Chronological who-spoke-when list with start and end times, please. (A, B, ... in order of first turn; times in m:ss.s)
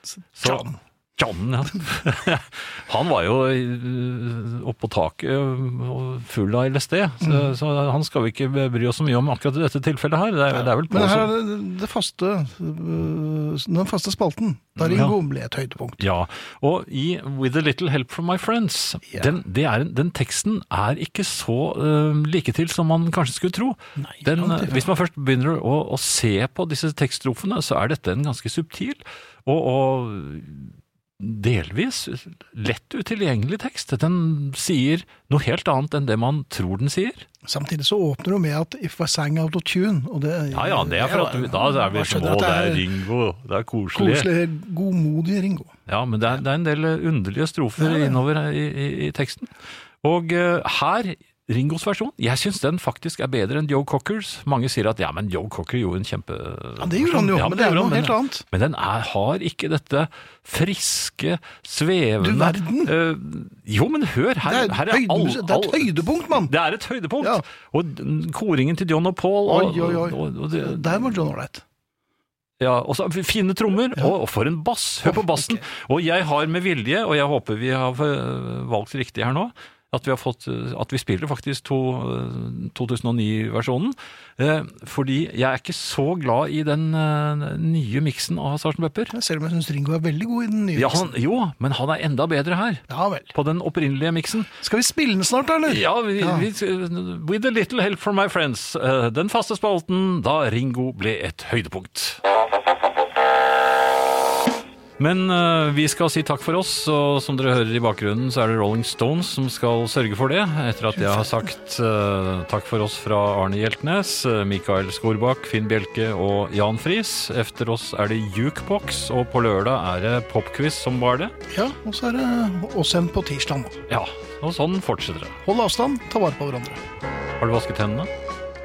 0:00.3-0:00.8 A
0:00.4-0:11.3 B
0:10.5-0:16.0 A
0:14.8-0:15.2 B
0:16.0-0:37.3 B
0:24.0-0:24.9 A
0:37.4-0:42.9 A
0:40.5-0:44.3 B
0:43.9-0:45.7 A
0:45.9-1:11.2 B
0:47.8-0:48.2 A
0:56.8-0:58.4 A
1:02.2-1:02.9 A
1:04.4-1:06.5 A
1:07.2-1:07.4 A
1:09.4-1:11.6 A
1:12.6-1:29.1 B
1:15.0-1:15.6 A
1:29.1-1:31.1 A
1:30.7-1:34.5 B
1:32.9-1:33.3 A
1:34.6-1:36.5 A
1:35.6-1:42.2 B
1:45.0-2:01.3 B
1:51.0-1:51.4 A
2:01.5-2:03.8 A
2:03.9-2:05.4 B
2:05.4-2:06.8 A
2:07.4-2:08.1 B